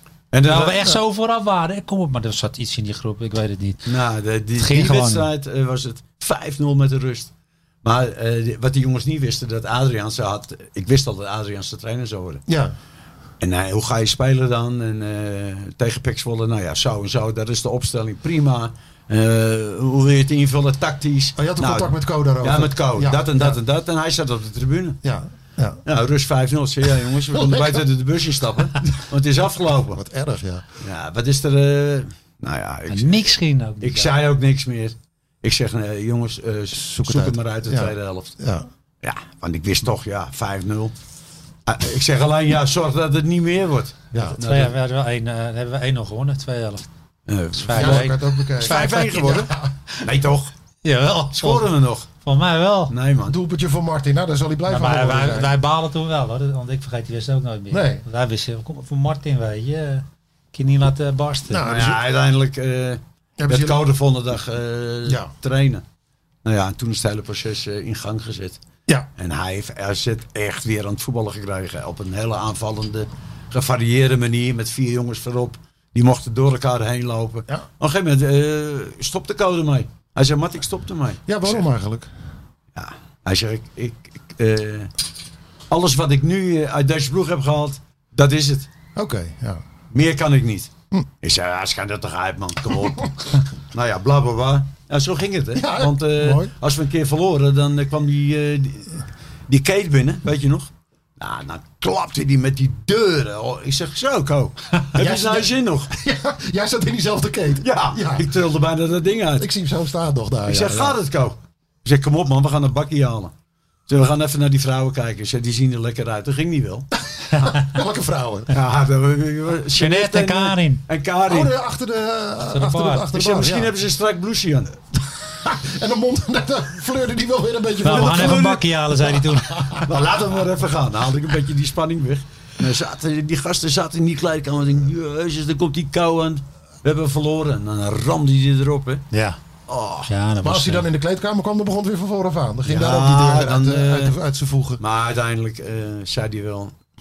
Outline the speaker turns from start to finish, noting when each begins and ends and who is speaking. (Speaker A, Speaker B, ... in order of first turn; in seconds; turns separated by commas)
Speaker A: 0.3-0.9, Speaker B: 0.4-3.9, Speaker A: 3.9-7.3, Speaker B: 4.6-5.3, Speaker A: 7.8-12.4, Speaker C: 12.5-12.7, Speaker A: 13.4-25.0, Speaker C: 21.4-23.6, Speaker C: 25.0-25.8, Speaker A: 25.9-30.0, Speaker C: 27.2-27.9, Speaker C: 29.9-30.6, Speaker A: 30.8-33.3, Speaker B: 32.9-34.1, Speaker A: 33.8-38.3, Speaker C: 36.8-38.7, Speaker A: 39.0-40.9, Speaker A: 41.7-44.7, Speaker B: 44.1-46.9, Speaker A: 47.3-50.5, Speaker B: 47.5-49.4, Speaker C: 47.7-49.7, Speaker B: 50.8-51.7, Speaker A: 51.3-52.1, Speaker B: 52.2-52.9, Speaker A: 52.9-53.4, Speaker C: 53.3-55.6, Speaker B: 54.7-61.7, Speaker C: 57.7-58.0, Speaker C: 61.5-62.0, Speaker A: 61.6-65.8, Speaker C: 63.4-63.8, Speaker C: 65.1-65.3, Speaker A: 66.4-68.6, Speaker A: 69.2-81.6, Speaker C: 81.3-82.1, Speaker A: 82.8-84.9, Speaker A: 85.7-88.7, Speaker C: 89.0-89.6, Speaker A: 89.9-90.7, Speaker A: 91.2-105.9, Speaker C: 95.5-96.5, Speaker C: 104.9-108.3, Speaker A: 107.6-109.5, Speaker C: 109.4-111.0, Speaker A: 110.5-113.3, Speaker A: 113.9-116.9, Speaker C: 117.3-118.6, Speaker A: 118.5-121.5, Speaker B: 119.7-120.8, Speaker C: 121.2-123.7, Speaker B: 122.4-123.1, Speaker A: 123.1-124.7, Speaker C: 125.0-130.0, Speaker B: 127.8-129.9, Speaker A: 127.8-128.7, Speaker A: 129.9-139.1, Speaker B: 139.1-139.4, Speaker A: 139.7-140.1, Speaker B: 140.1-140.9, Speaker C: 140.4-144.8, Speaker A: 142.7-144.2, Speaker A: 144.8-146.7